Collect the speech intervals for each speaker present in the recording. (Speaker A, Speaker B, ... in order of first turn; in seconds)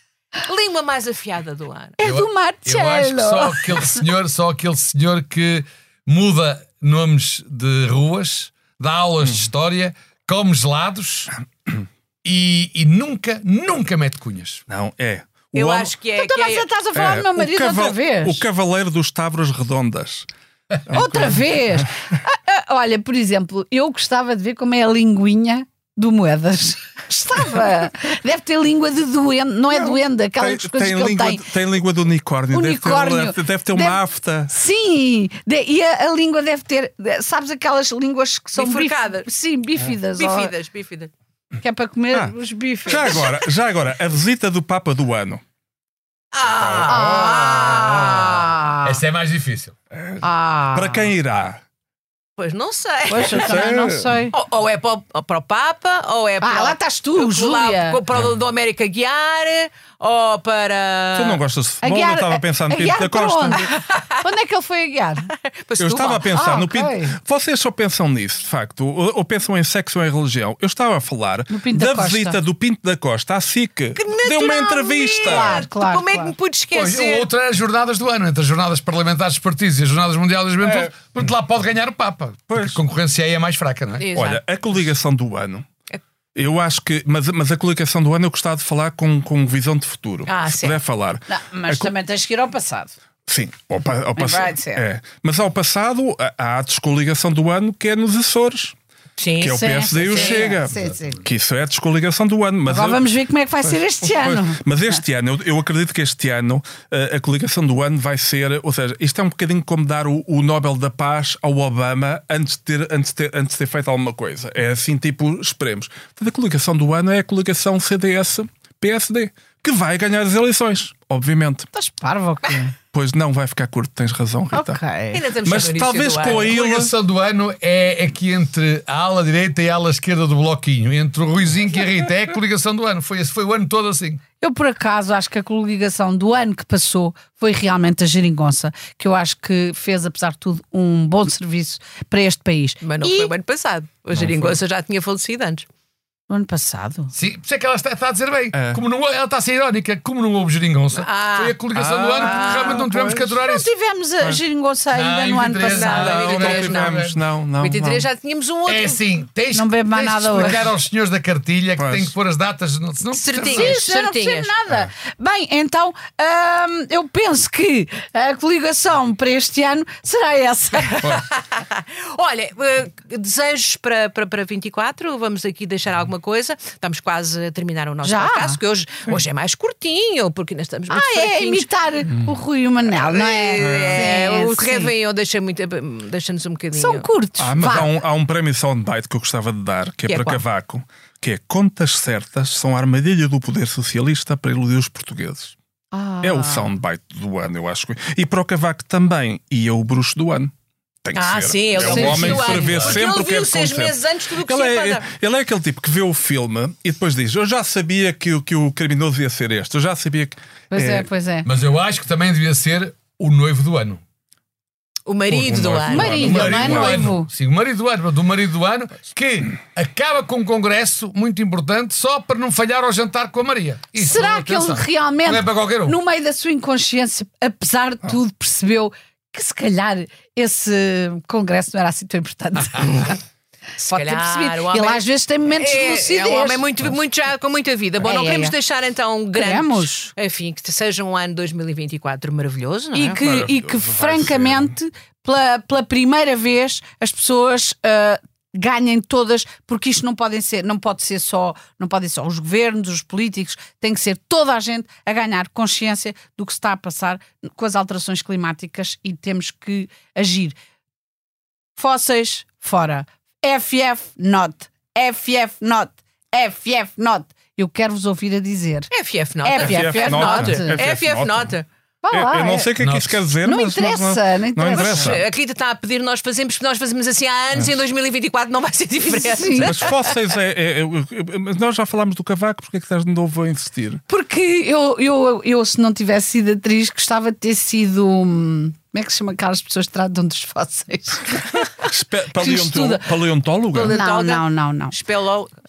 Speaker A: 0.4-2.0, 15.5-16.6, 38.5-39.2, 40.1-41.1, 46.3-48.5, 52.4-53.7, 54.3-61.4, 63.9-64.2, 65.3-66.3, 74.0-77.3, 84.0-84.4, 90.3-90.8, 99.2-100.6, 125.1-126.5, 142.8-145.6, 150.9-151.6, 152.1-152.9, 155.6-159.0, 163.1-164.5, 171.0-181.7, 182.9-187.1, 190.1-190.4, 201.1-205.1, 215.1-216.3, 233.8-243.2, 268.9-271.6, 274.7-280.1, 293.7-295.5
Speaker B: 2.0-4.0, 16.1-18.4, 20.9-31.5, 32.5-40.5, 41.6-43.2, 46.9-47.6, 48.4-48.9, 50.2-51.1, 53.1-54.3, 56.4-58.0, 61.8-65.3, 66.3-67.2, 71.5-72.4, 75.2-76.3, 91.3-92.9, 94.2-94.8, 100.0-101.2, 102.7-104.6, 121.7-122.7, 124.5-125.2, 134.4-143.3, 146.3-147.1, 153.3-156.2, 159.5-160.7, 163.3-171.1, 178.0-178.6, 180.9-184.9, 186.7-187.9, 195.9-196.7, 201.9-202.3, 210.7-211.5, 215.9-217.3, 223.9-233.2, 233.8-236.9, 238.0-238.5, 239.3-240.1, 242.9-260.6, 261.8-268.9, 269.4-270.8, 272.0-272.7, 273.4-275.2, 279.0-279.9, 284.1-291.7, 292.4-293.1, 293.9-294.9
Speaker C: 2.0-11.3, 12.2-14.6, 48.8-49.8, 76.7-84.0, 126.2-134.2, 147.1-153.7, 154.9-157.2, 158.7-163.8, 201.8-203.0, 211.4-214.0, 216.1-226.0, 272.8-273.2
Speaker D: 9.2-9.4, 14.7-15.9, 16.9-20.3, 20.9-21.9, 29.7-34.5, 42.9-45.4, 46.6-48.4, 49.9-51.6, 53.2-54.2, 61.1-63.6, 65.8-75.7, 80.6-80.9, 82.5-82.8, 84.1-85.7, 86.3-91.9, 93.3-98.7, 99.4-103.0, 103.7-121.7, 122.9-124.8, 125.4-126.9, 144.1-144.6, 148.5-148.8, 151.7-153.4, 155.9-158.1, 161.8-162.1, 183.6-184.1, 187.4-195.5, 196.2-200.5, 201.0-211.1, 215.3-217.1, 243.2-244.7, 269.6-271.5, 272.1-275.2, 279.6-284.0, 291.8-294.0